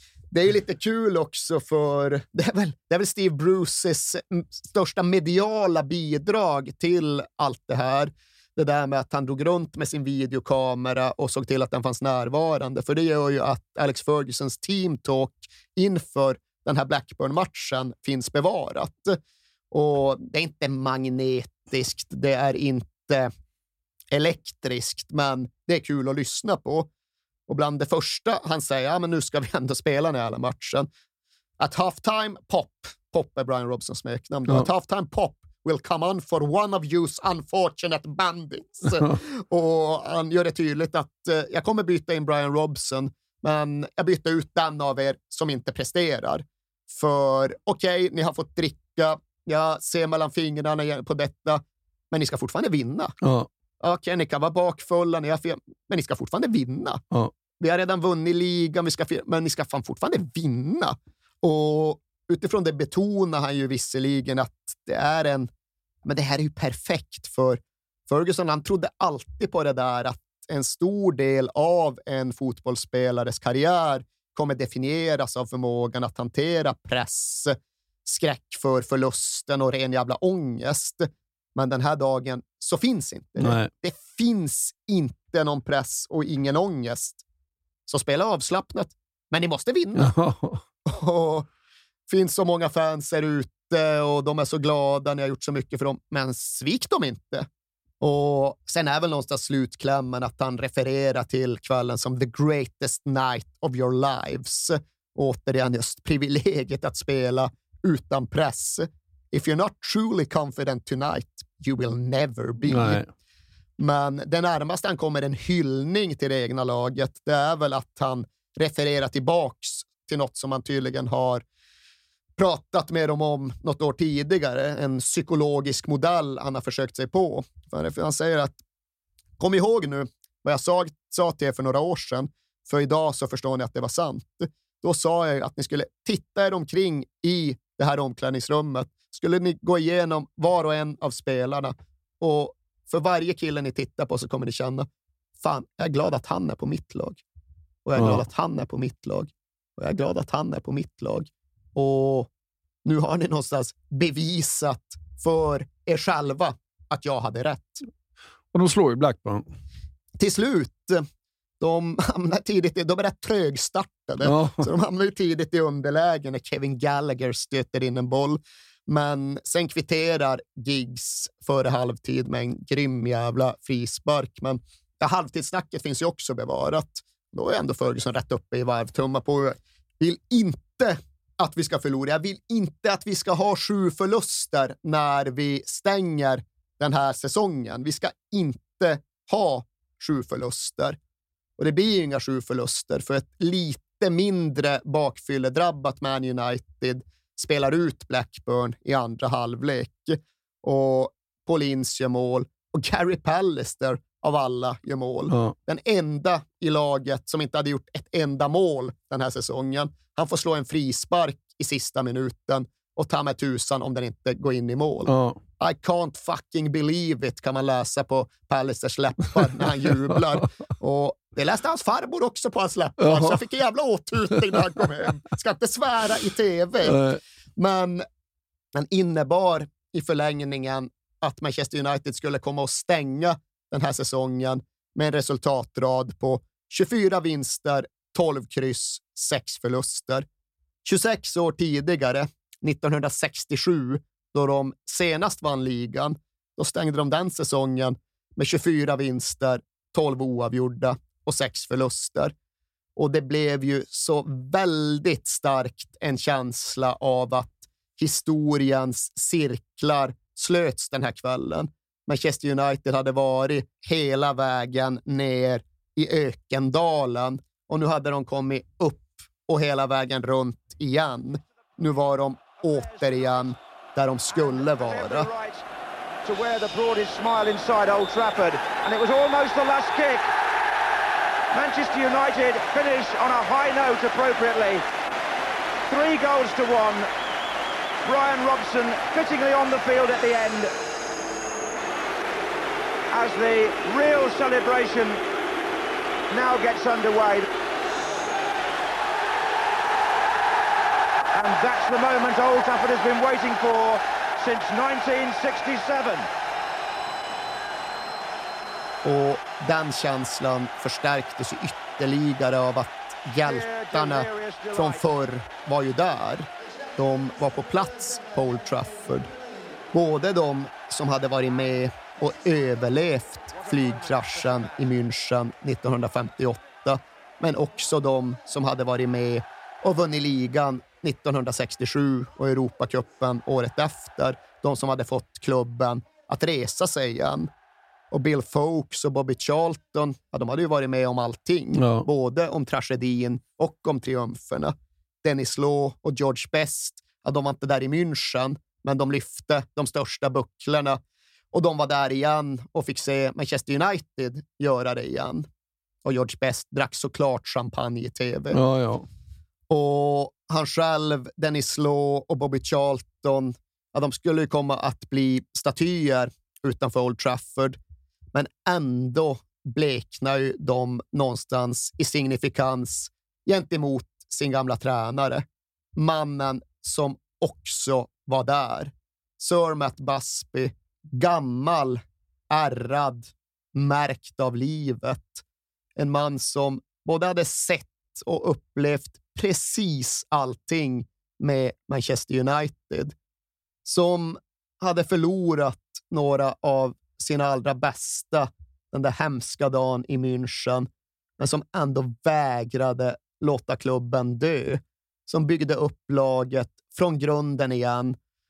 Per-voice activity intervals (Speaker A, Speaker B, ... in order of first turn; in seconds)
Speaker A: 0.3-19.2, 19.7-23.3, 24.1-26.9, 27.5-30.9, 31.6-53.1, 53.8-57.0, 57.6-65.5, 66.0-87.2, 87.9-90.1, 90.9-91.5, 92.1-97.5, 98.0-113.0, 113.8-121.4, 122.4-128.6, 129.4-144.9, 145.4-147.2, 147.8-152.3, 152.8-157.8, 160.2-161.1, 161.6-191.0, 191.6-227.0, 227.6-228.0, 228.7-240.3, 240.8-252.3, 253.0-275.3, 309.0-319.3, 319.9-337.5, 338.1-351.0, 351.5-355.5, 356.1-358.6, 359.7-367.8, 368.3-375.4, 376.0-385.4, 386.0-393.1, 393.9-408.2
Speaker B: 53.2-53.5, 83.4-83.7, 90.0-90.6, 112.7-113.1, 148.0-148.2, 158.5-159.4, 164.2-164.7, 215.1-215.4, 223.0-223.4, 226.8-227.2, 341.8-342.1, 358.5-359.1
Speaker C: 272.8-273.3, 274.3-275.6, 276.2-280.3, 281.5-284.8, 285.9-287.1, 288.0-290.7, 293.1-295.2, 296.3-297.5, 301.4-306.3, 313.4-315.1